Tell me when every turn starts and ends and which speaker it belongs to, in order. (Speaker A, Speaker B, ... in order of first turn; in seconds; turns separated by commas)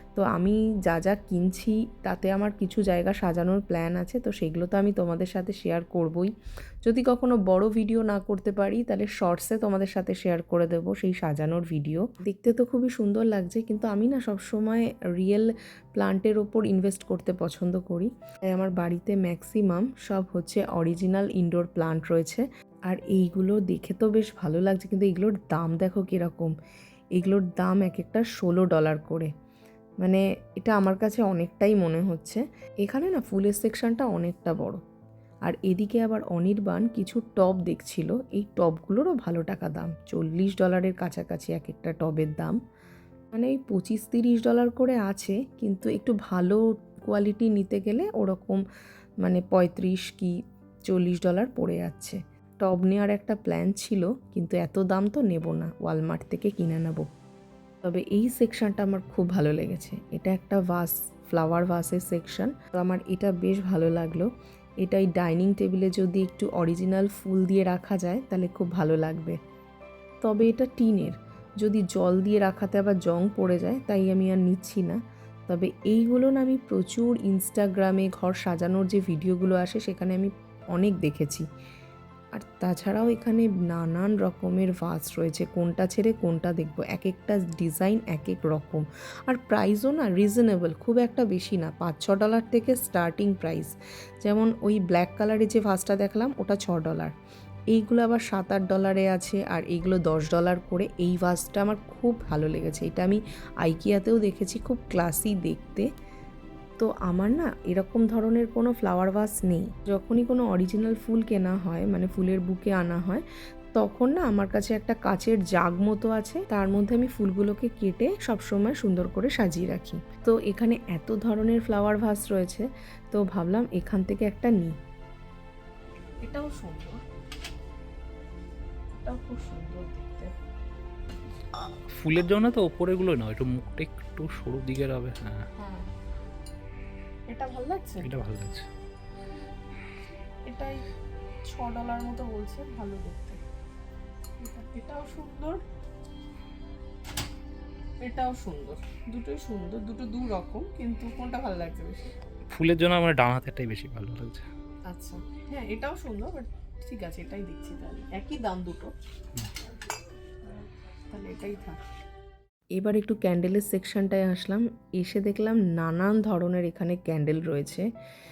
Speaker A: 0.1-6.3, Speaker A: 6.8-26.5, Speaker A: 27.1-29.3, Speaker A: 30.0-34.8, Speaker A: 35.4-42.6, Speaker A: 43.3-48.6, Speaker A: 49.2-57.1, Speaker A: 57.8-64.3, Speaker A: 64.8-69.4, Speaker A: 70.2-81.5, Speaker A: 82.3-97.1, Speaker A: 97.7-105.9, Speaker A: 106.8-124.8, Speaker B: 126.2-127.0, Speaker B: 128.9-130.3, Speaker C: 131.9-135.4, Speaker B: 135.6-135.9, Speaker B: 137.3-138.1, Speaker C: 138.0-138.6, Speaker B: 140.4-140.8, Speaker B: 141.4-143.4, Speaker B: 144.4-145.6, Speaker B: 148.0-152.1, Speaker C: 152.5-154.4, Speaker B: 154.9-158.9, Speaker B: 161.1-161.8, Speaker A: 162.7-167.9